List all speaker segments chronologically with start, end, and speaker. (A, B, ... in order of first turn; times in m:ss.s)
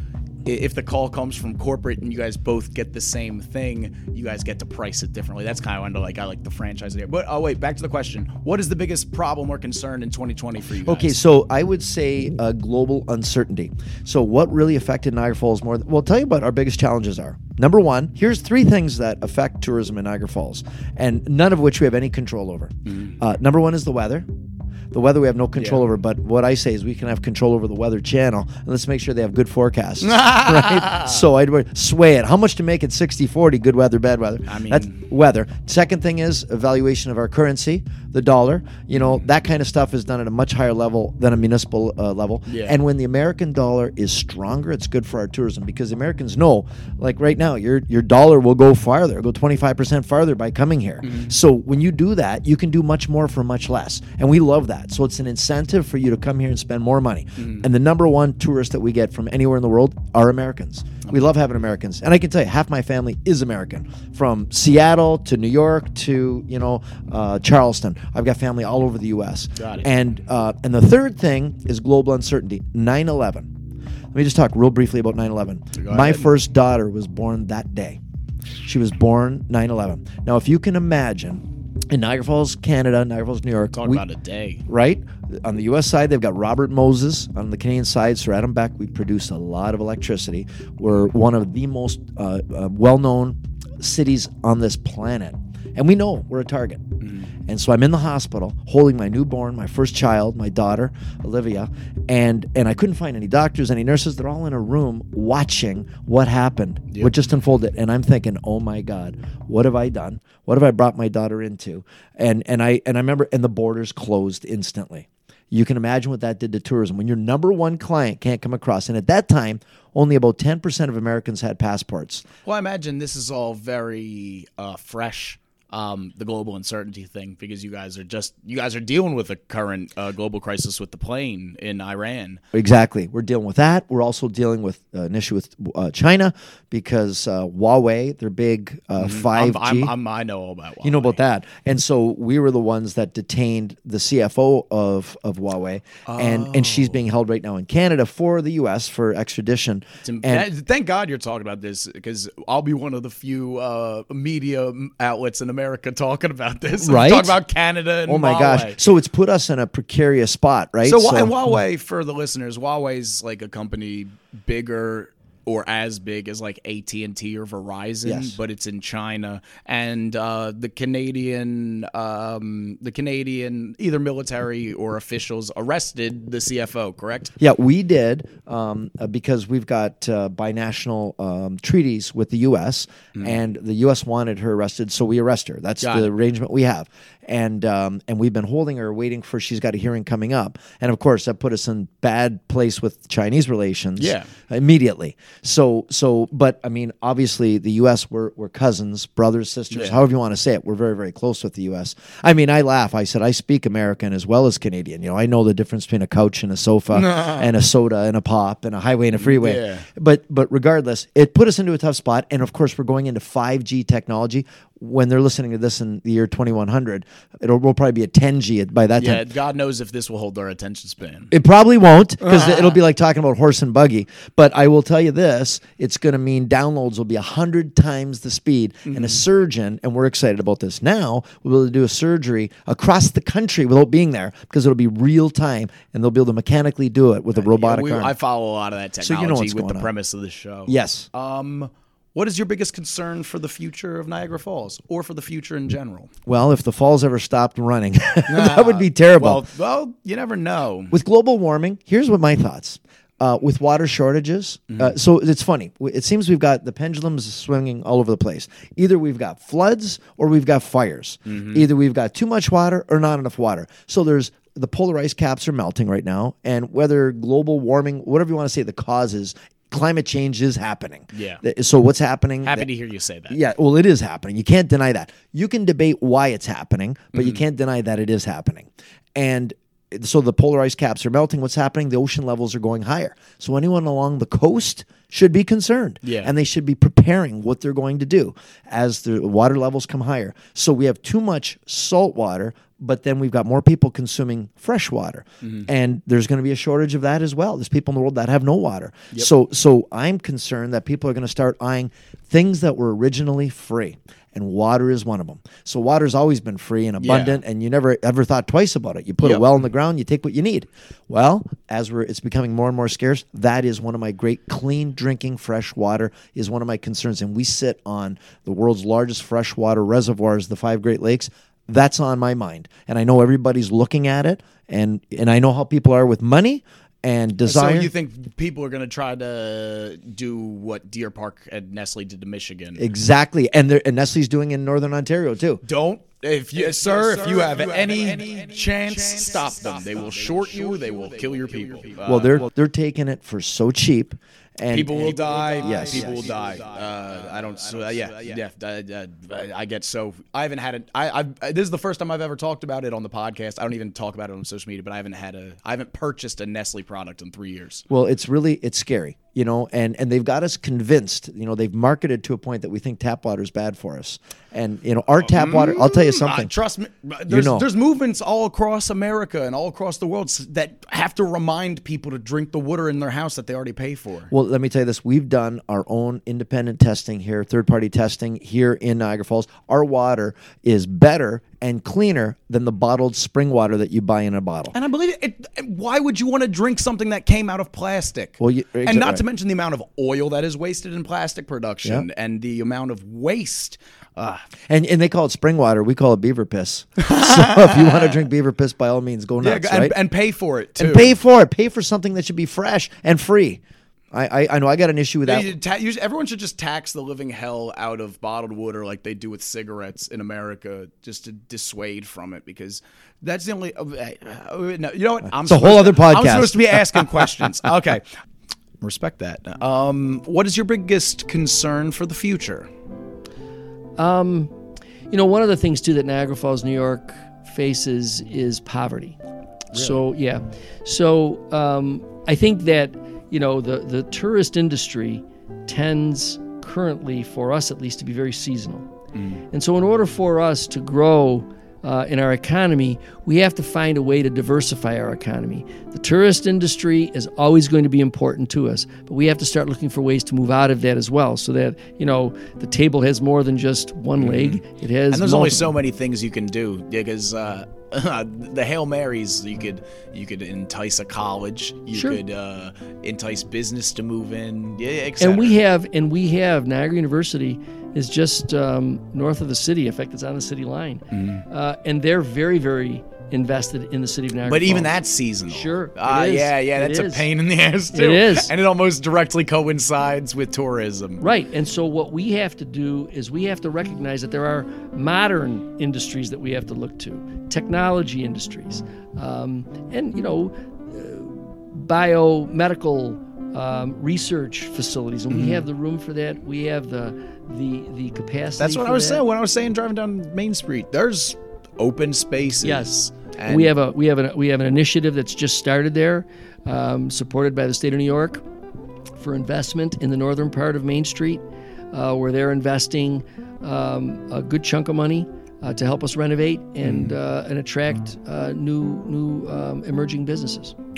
0:00.4-0:11.2 A
0:10.8-0:24.3 B
0:22.9-0:23.2 A
0:24.9-1:13.5 B
0:25.6-0:25.8 A
0:30.0-0:31.2 A
0:34.5-0:35.0 A
0:39.0-0:39.2 A
0:42.5-0:42.8 A
0:51.0-0:51.4 A
0:57.4-0:57.7 A
1:01.0-1:01.4 A
1:09.6-1:09.9 A
1:14.1-1:18.0 B
1:15.8-1:16.3 A
1:18.6-1:24.0 B
1:23.7-1:24.6 A
1:24.7-1:37.0 B
1:37.0-1:37.3 A
1:37.5-2:02.3 B
1:46.9-1:47.3 A
2:02.4-2:12.4 A
2:12.5-2:19.9 B
2:19.0-2:21.2 A
2:20.8-2:30.5 B
2:26.1-2:27.0 A
2:30.0-2:38.8 A
2:36.8-2:37.4 B
2:38.1-2:41.3 B
2:40.8-2:57.3 A
2:48.0-2:48.4 B
2:57.4-3:39.2 B
3:05.8-3:06.1 A
3:14.0-3:14.3 A
3:19.7-3:20.0 A
3:26.9-3:27.5 A
3:29.2-3:29.9 A
3:39.0-3:41.3 A
3:41.3-3:58.1 B
3:42.2-3:42.8 A
3:48.9-3:49.2 A
3:57.4-4:06.1 A
3:59.0-3:59.9 B
4:00.7-4:01.1 B
4:06.3-4:09.4 B
4:08.3-4:10.9 A
4:10.9-4:32.7 B
4:14.7-4:15.0 A
4:21.3-4:21.7 A
4:31.1-4:31.4 A
4:32.4-4:33.4 A
4:33.3-5:27.9 B
4:37.1-4:37.4 A
4:46.0-4:46.3 A
4:55.4-4:55.7 A
5:07.0-5:07.4 A
5:27.4-5:32.9 A
5:32.8-5:35.6 B
5:35.6-5:42.5 A
5:36.6-5:38.3 B
5:42.0-5:46.6 B
5:44.7-5:57.8 A
5:47.7-5:48.3 B
5:57.9-6:06.5 B
6:05.2-6:14.3 A
6:07.3-6:07.7 B
6:14.3-6:24.7 B
6:24.7-6:34.4 A
6:28.4-6:29.2 B
6:34.7-6:40.0 B
6:37.0-6:38.2 A
6:39.4-6:41.2 A
6:40.8-6:43.6 B
6:44.1-6:45.6 B
6:45.2-6:58.0 A
6:55.4-6:57.1 B
6:58.8-7:02.7 A
7:04.0-7:04.5 C
7:05.1-7:09.2 C
7:09.7-7:10.0 A
7:09.7-7:18.9 C
7:19.1-7:19.4 A
7:19.5-7:35.7 C
7:34.2-7:45.6 A
7:41.9-7:42.2 C
7:45.2-7:54.9 C
7:51.1-7:51.4 A
7:54.4-8:01.2 A
7:55.5-7:57.3 C
7:57.9-7:58.5 C
8:01.2-8:19.2 C
8:15.3-8:15.6 A
8:18.6-8:23.7 A
8:22.6-8:23.0 C
8:23.5-8:28.4 C
8:29.2-8:40.7 C
8:36.8-8:37.2 A